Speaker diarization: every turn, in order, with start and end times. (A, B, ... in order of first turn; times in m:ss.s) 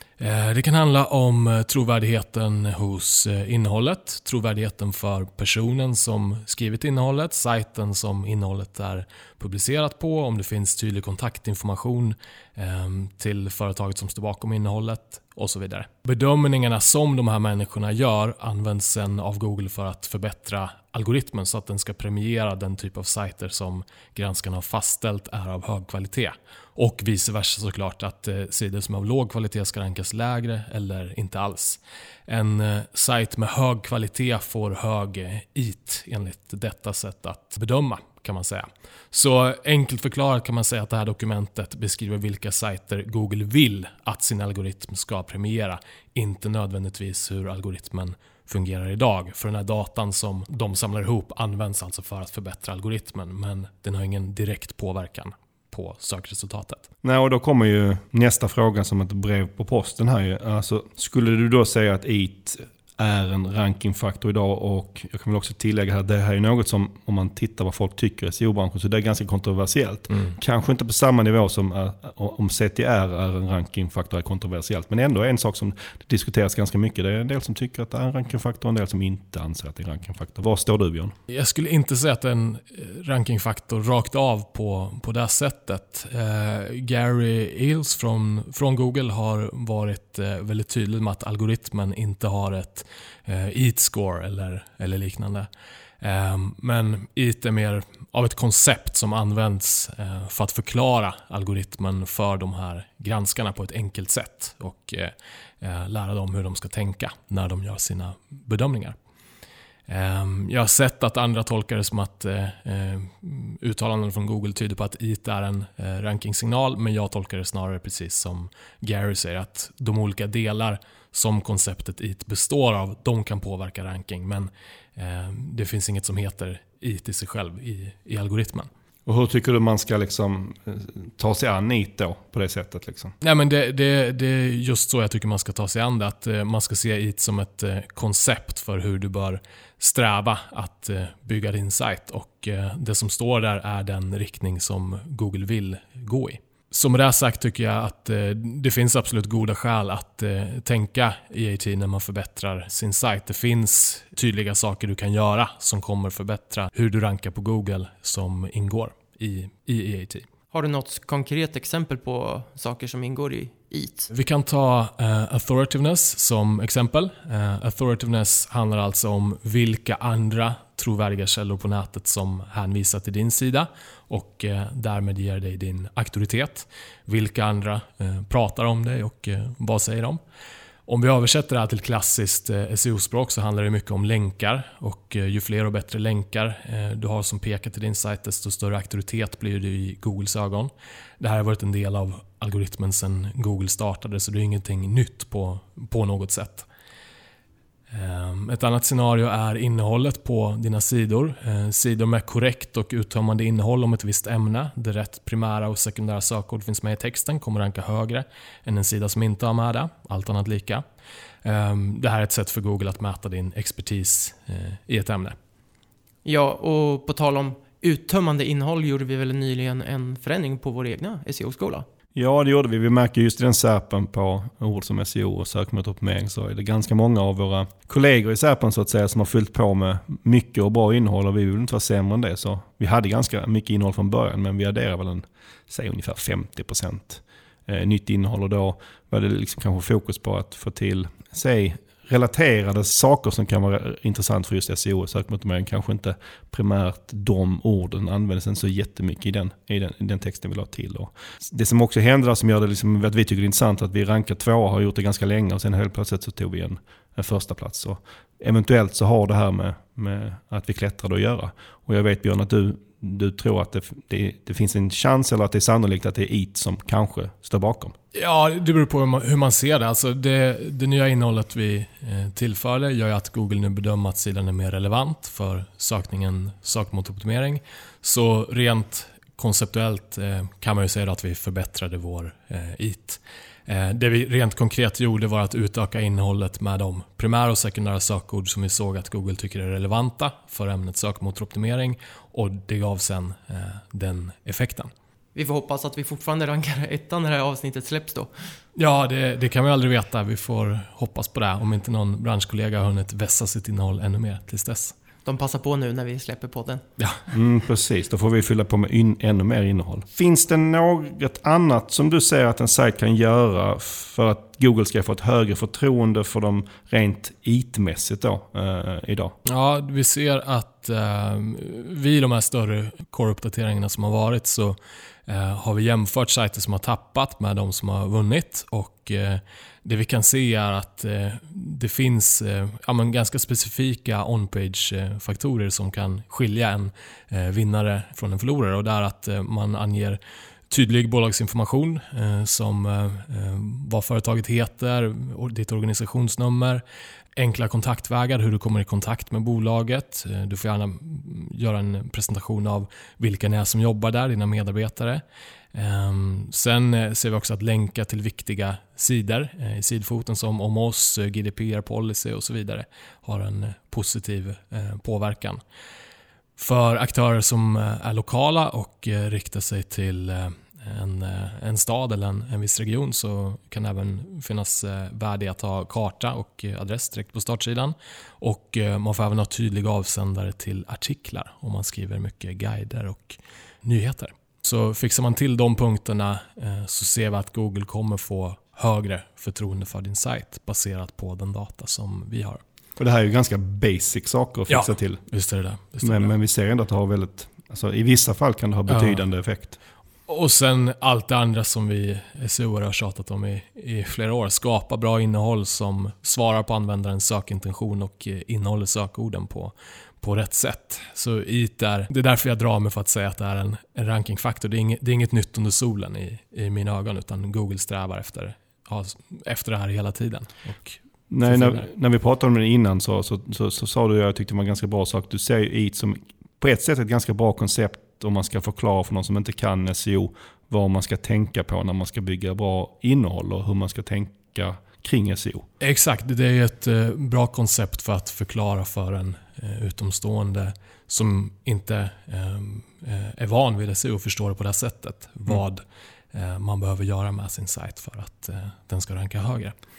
0:00.2-0:56.8 A
0:57.0-1:21.1 B
1:21.3-1:35.5 A
1:36.0-1:49.0 A
1:49.9-2:08.7 A
2:09.0-2:13.1 B
2:13.2-2:40.3 A
2:40.5-2:44.1 C
2:44.1-3:00.2 A
3:00.8-3:16.7 A
3:17.9-3:30.8 A
3:31.4-3:35.4 A
3:36.2-3:41.8 C
3:42.1-4:27.9 B
4:28.1-4:54.9 A
4:55.3-4:58.3 C
4:58.8-5:04.9 A
5:05.2-5:06.8 C
5:07.3-5:19.4 B
5:19.4-5:46.8 A
5:47.4-5:55.2 A
5:55.7-6:05.6 A
6:06.6-6:32.6 A
6:33.0-6:35.2 B
6:34.7-6:36.3 A
6:36.0-6:39.8 B
6:38.9-6:39.2 A
6:40.3-7:01.8 A
7:01.3-7:15.7 B
7:15.8-7:29.7 A